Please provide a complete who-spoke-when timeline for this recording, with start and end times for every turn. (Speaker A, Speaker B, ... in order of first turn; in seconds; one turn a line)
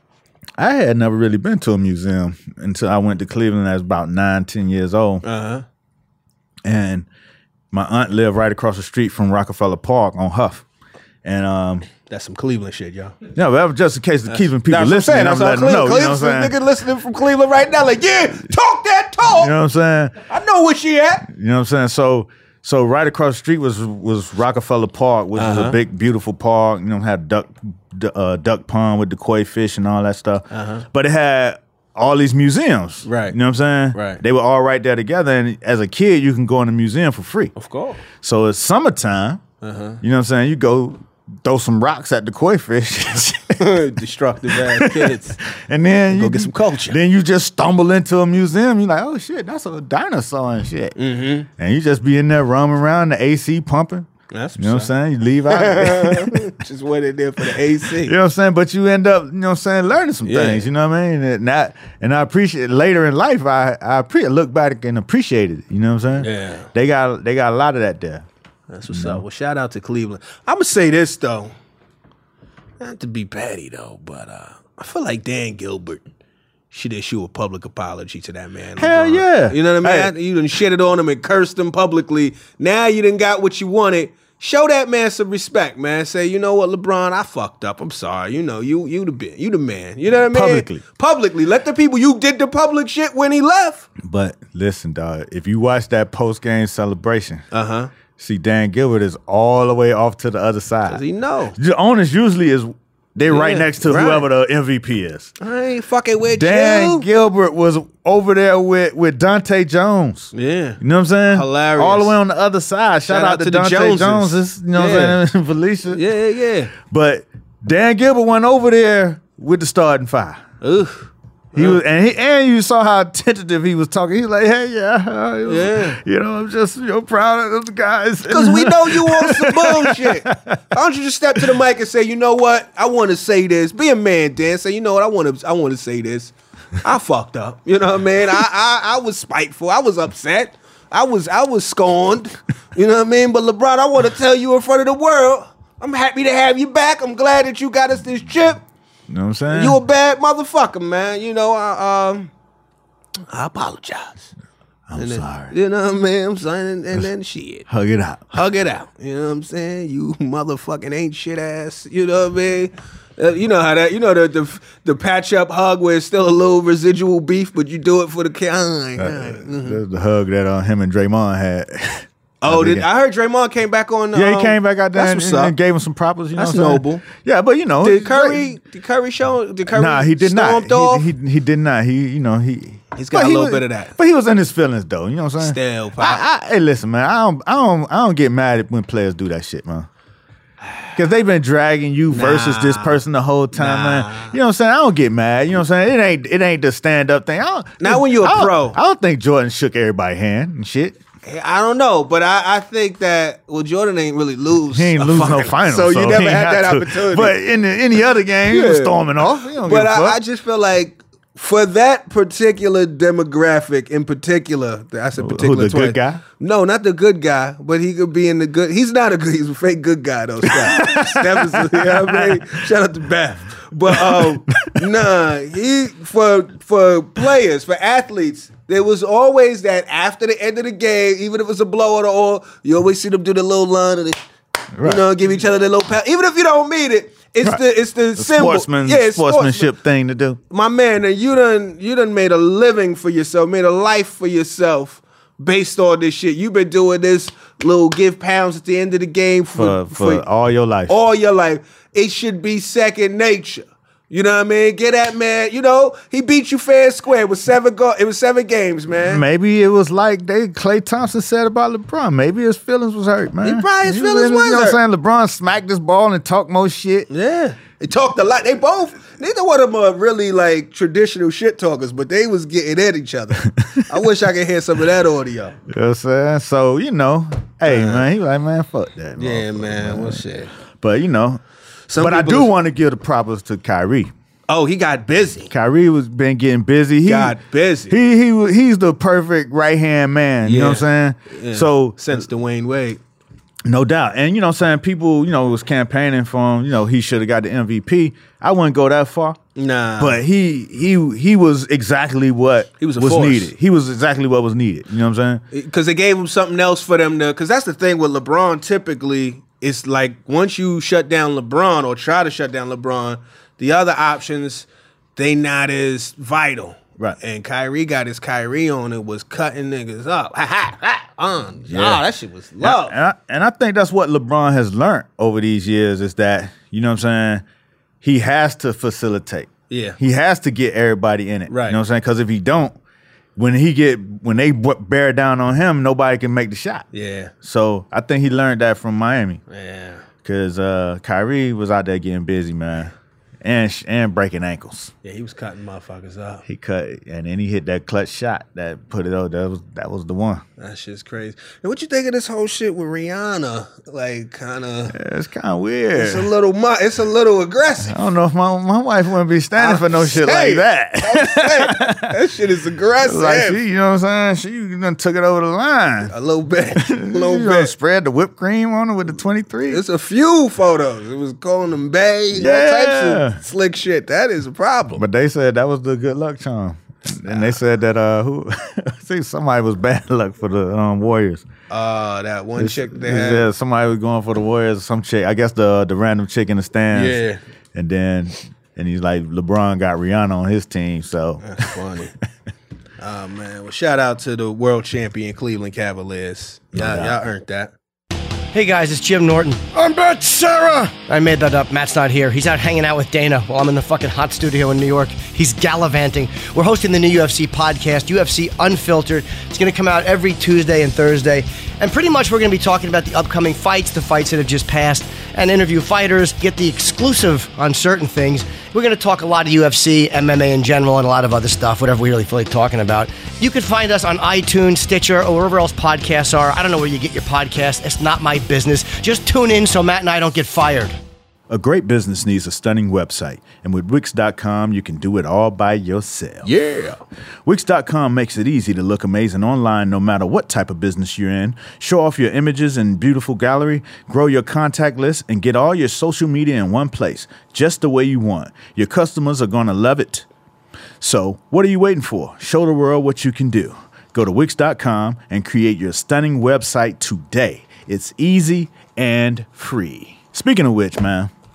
Speaker A: 0.6-5.2
Speaker B: 5.2-5.6
Speaker A: 6.6-7.1
Speaker A: 7.7-10.6
Speaker A: 11.2-11.9
Speaker B: 12.1-13.2
Speaker A: 13.3-16.6
Speaker B: 14.3-19.5
Speaker A: 19.3-20.2
Speaker B: 20.3-21.3
Speaker A: 21.3-37.5
Speaker B: 25.4-25.8
Speaker B: 30.5-30.9
Speaker B: 33.0-33.4
Speaker B: 33.9-34.2
Speaker B: 37.5-38.0
Speaker A: 38.1-39.4
Speaker B: 39.6-40.0
Speaker A: 40.0-43.7
Speaker B: 43.6-45.4
Speaker A: 44.5-51.0
Speaker B: 46.1-47.0
Speaker B: 51.0-51.5
Speaker A: 51.6-54.1
Speaker B: 54.3-54.9
Speaker A: 54.6-56.5
Speaker B: 55.5-58.2
Speaker A: 58.0-68.3
Speaker B: 60.2-60.7
Speaker B: 66.2-66.7
Speaker B: 68.7-71.5
Speaker A: 68.9-69.2
Speaker B: 72.8-76.0
Speaker B: 76.7-93.9
Speaker A: 78.8-80.1
Speaker A: 90.2-90.8
Speaker A: 94.0-97.5
Speaker B: 97.5-97.9
Speaker A: 98.2-101.0
Speaker B: 100.9-101.6
Speaker A: 101.6-105.3
Speaker B: 103.3-104.3
Speaker B: 105.4-107.1
Speaker A: 106.3-116.0
Speaker B: 110.3-112.2
Speaker B: 113.1-115.2
Speaker B: 115.9-116.7
Speaker A: 116.8-120.4
Speaker B: 120.6-121.8
Speaker A: 121.5-130.6
Speaker B: 125.5-126.0
Speaker B: 128.3-148.6
Speaker A: 149.1-149.8
Speaker B: 149.5-152.3
Speaker B: 153.3-154.3
Speaker A: 154.9-155.5
Speaker B: 155.0-157.7
Speaker A: 157.7-158.3
Speaker B: 158.3-169.8
Speaker A: 169.0-172.9
Speaker B: 172.4-175.6
Speaker A: 174.1-178.4
Speaker B: 176.3-177.1
Speaker B: 177.8-181.1
Speaker A: 179.7-189.9
Speaker B: 182.9-183.9
Speaker B: 185.4-186.2
Speaker A: 190.9-201.0
Speaker B: 192.1-193.0
Speaker B: 193.5-194.4
Speaker B: 197.8-198.8
Speaker B: 201.2-207.4
Speaker A: 204.7-210.2
Speaker B: 208.4-209.0
Speaker B: 209.6-234.2
Speaker A: 215.2-216.2
Speaker A: 220.4-222.6
Speaker A: 223.9-224.9
Speaker A: 234.8-235.0
Speaker B: 234.8-239.7
Speaker A: 238.2-240.4
Speaker B: 240.5-250.2
Speaker A: 249.6-250.9
Speaker B: 250.9-259.2
Speaker A: 259.0-267.1
Speaker B: 263.4-264.8
Speaker B: 267.1-275.6
Speaker A: 273.5-273.8
Speaker A: 275.7-280.2
Speaker B: 277.7-278.1
Speaker B: 279.2-280.5
Speaker A: 280.8-281.4
Speaker B: 281.9-282.5
Speaker A: 282.0-284.1
Speaker B: 284.5-285.5
Speaker A: 285.5-287.4
Speaker B: 287.0-288.0
Speaker A: 287.9-292.3
Speaker B: 290.4-293.0
Speaker A: 293.6-299.4
Speaker B: 299.6-300.2
Speaker A: 300.0-305.4
Speaker B: 302.8-303.5
Speaker B: 305.5-323.0
Speaker A: 321.7-322.0
Speaker A: 322.6-327.4
Speaker A: 328.0-332.8
Speaker B: 329.7-330.0
Speaker B: 331.5-331.8
Speaker A: 333.4-336.9
Speaker B: 336.9-337.3
Speaker A: 337.4-339.4
Speaker B: 339.5-340.0
Speaker A: 340.2-344.9
Speaker B: 345.0-346.4
Speaker A: 346.5-350.4
Speaker B: 350.6-355.0
Speaker A: 354.9-356.3
Speaker B: 355.9-358.0
Speaker A: 357.9-362.1
Speaker B: 359.6-363.6
Speaker A: 363.0-366.1
Speaker B: 366.1-367.7
Speaker A: 366.8-369.8
Speaker B: 369.7-375.0
Speaker A: 372.3-373.4
Speaker A: 375.0-381.4
Speaker B: 377.2-377.6
Speaker B: 381.7-383.5
Speaker A: 382.6-387.2
Speaker B: 386.9-387.4
Speaker A: 387.7-391.7
Speaker B: 391.4-392.1
Speaker B: 393.0-397.7
Speaker A: 396.7-397.2
Speaker C: 398.5-399.8
Speaker A: 399.8-400.9
Speaker C: 400.9-431.0
Speaker A: 431.5-436.5
Speaker B: 436.4-437.0
Speaker A: 437.4-450.3
Speaker A: 451.0-461.3